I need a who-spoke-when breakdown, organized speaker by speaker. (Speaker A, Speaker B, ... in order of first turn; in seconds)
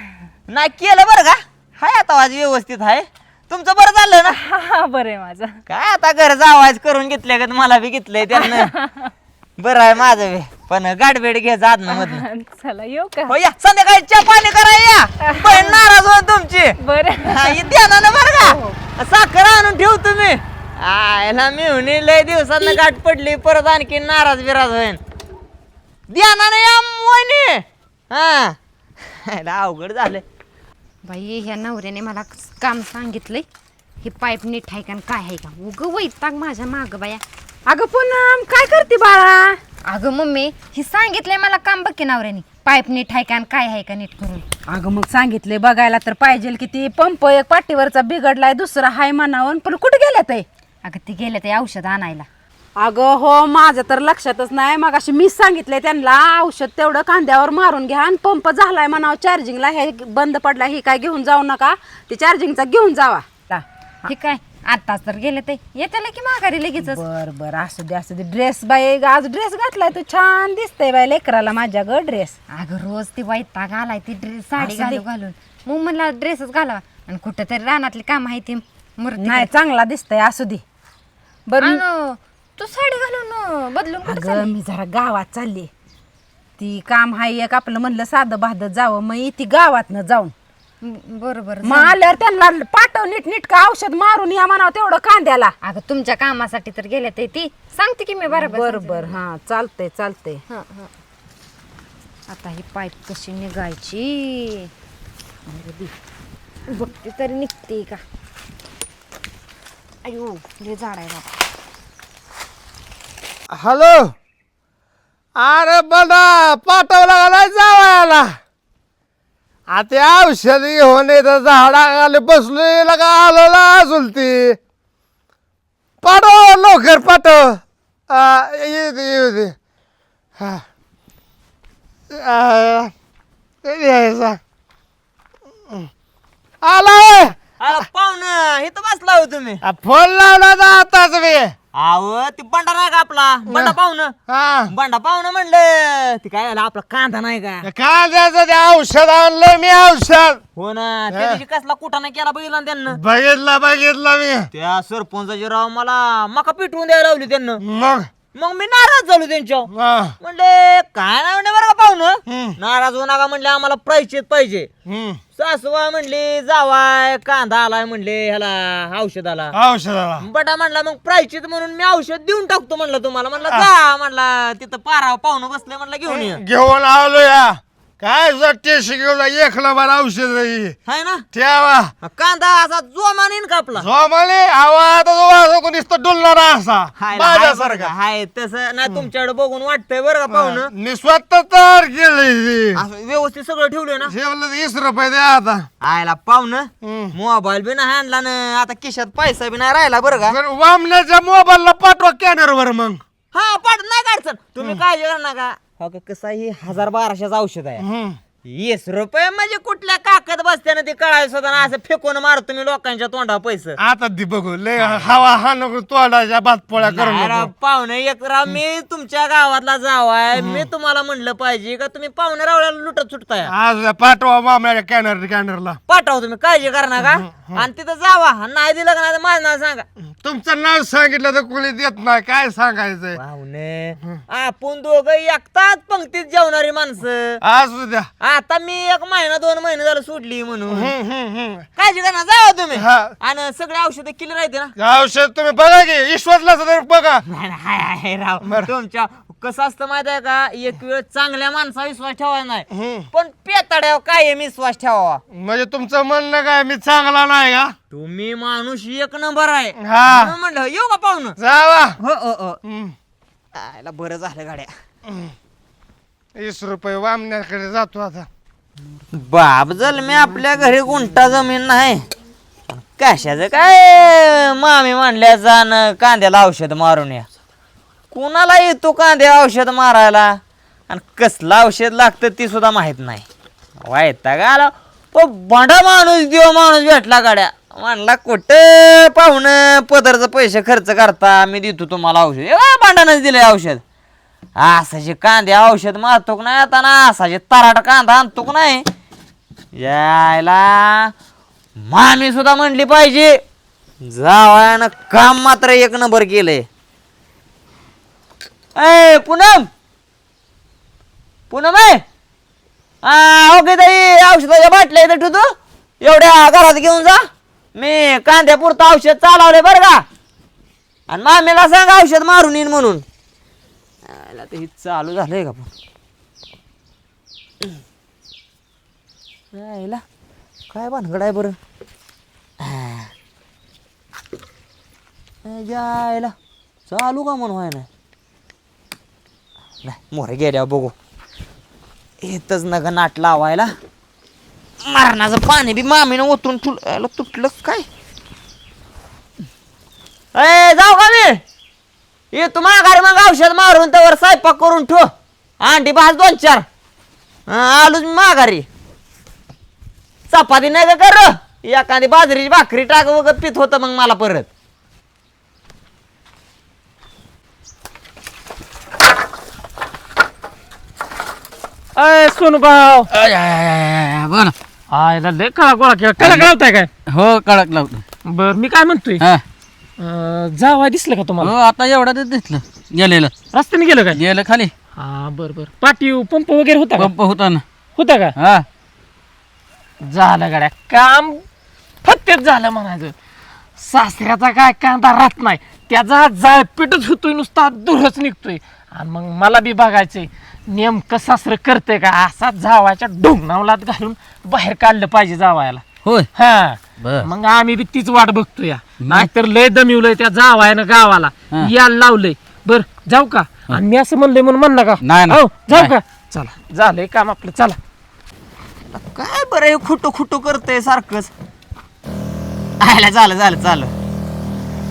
Speaker A: 0.5-4.4, 5.7-8.7, 9.6-12.2, 13.3-25.0, 26.1-30.2, 137.6-139.6, 141.7-144.1, 144.7-147.7, 150.6-153.0, 154.5-157.6, 158.3-159.7, 160.2-164.7, 165.3-169.5, 170.2-176.4, 180.8-181.2, 182.0-183.9, 187.0-190.7, 192.7-194.1, 195.8-200.4, 203.3-207.8, 208.5-213.8, 214.8-215.1, 216.8-223.5, 225.9-229.8, 233.1-237.4, 238.2-240.9, 241.8-244.7, 247.2-255.2, 257.9-261.4, 262.0-262.6, 263.6-264.7, 269.1-272.0, 272.7-277.3, 278.1-283.2, 283.8-293.8, 294.6-298.8, 299.7-301.1, 301.8-303.4, 304.0-306.6, 308.8-309.7, 311.5-312.0, 313.0-320.0, 321.1-323.0, 324.1-325.7, 329.5-330.0, 330.7-331.6, 332.6-333.1, 335.4-336.3, 336.9-337.9, 339.8-340.9, 342.2-343.7, 344.8-347.9, 350.3-351.4, 352.3-356.6, 357.5-358.7, 360.3-364.5, 418.9-421.3, 422.8-423.9
Speaker B: 4.4-5.6, 8.4-9.1, 11.9-13.3, 15.2-15.8, 16.8-17.7, 18.4-18.8
Speaker C: 31.0-33.4, 34.0-37.2, 39.9-44.4, 50.8-52.3, 64.1-67.0, 72.5-79.5, 81.6-84.5, 90.8-92.0, 95.6-99.2, 100.5-100.9, 102.3-104.7, 105.5-105.9, 106.7-108.0, 110.0-111.4
Speaker D: 37.7-39.6, 44.7-50.4, 52.8-64.1, 66.8-72.4, 74.6-75.0, 79.2-80.6, 81.5-81.8, 84.0-85.7, 86.6-90.3, 91.6-95.5, 98.3-100.4
Speaker E: 113.5-114.1, 115.3-118.4, 119.7-124.6, 126.0-129.6, 132.1-132.9, 133.6-134.4, 136.6-137.3, 139.6-141.5, 143.5-143.7, 144.3-144.7, 147.6-150.4, 151.1-151.4, 152.9-154.5, 157.6-158.1, 159.7-160.1, 162.3-162.6, 164.8-165.2, 169.5-170.2, 176.1-180.8, 181.3-181.9, 183.8-187.9, 190.3-192.8, 194.1-195.7, 196.8-197.1, 200.3-203.0, 207.8-208.2, 213.8-217.5, 220.3-220.6, 223.5-225.8, 227.0-227.6, 230.2-233.2, 237.4-238.1, 240.7-241.6, 242.8-243.1, 244.8-247.2, 252.7-253.0, 255.3-257.7, 259.8-260.3, 261.4-262.0, 262.6-262.9, 265.1-265.3, 266.4-268.3
Speaker F: 371.9-373.1, 374.9-376.9, 378.3-379.2, 380.0-381.5, 383.5-384.2, 384.9-387.1, 387.9-388.3, 390.0-391.4, 392.0-393.1, 393.8-417.8
Speaker G: 373.1-374.5, 376.2-376.5, 377.1-378.0, 381.4-383.3, 384.1-384.7, 387.0-387.6, 388.4-388.6, 406.0-406.3, 407.0-407.3, 409.0-409.3, 415.0-415.9